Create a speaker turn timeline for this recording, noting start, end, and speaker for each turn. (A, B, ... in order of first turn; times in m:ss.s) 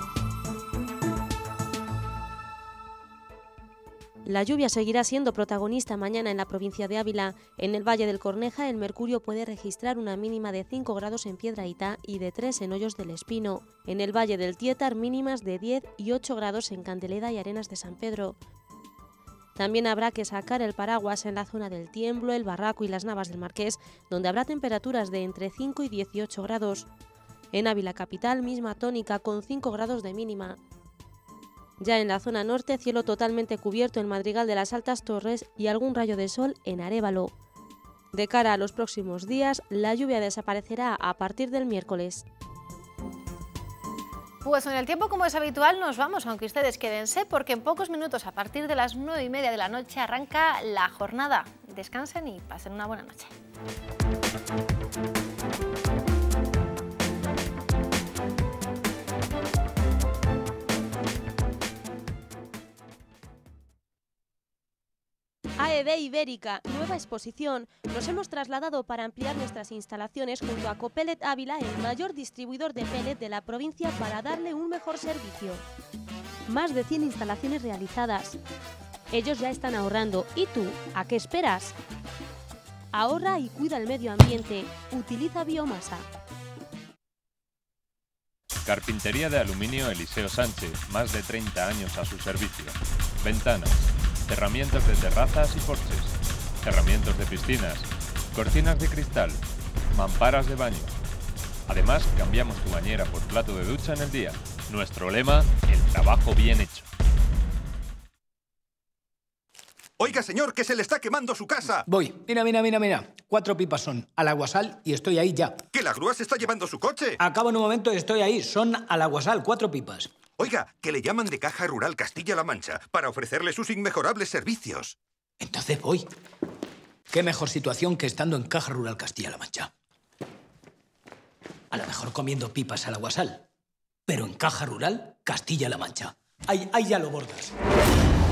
0:04.2-0:18.4 A
0:19.6-0:26.9 A
0:27.5-0:30.6 A
0:31.8-0:37.3 A
0:38.1-0:42.2 A
0:44.4-0:53.3 B
1:05.6-1:15.6 A
1:16.5-1:18.4 A
1:19.1-1:21.8 A
1:22.9-1:26.1 A
1:28.6-1:39.4 C
1:39.9-1:40.9 C
1:41.7-1:46.9 C
1:50.0-1:51.8 D
1:51.9-1:55.6 E
1:55.7-1:57.2 D
1:57.2-2:00.1 E
2:00.4-2:05.0 D
2:05.4-2:06.1 E
2:07.1-2:09.7 E
2:11.7-2:13.4 E
2:14.1-2:17.6 E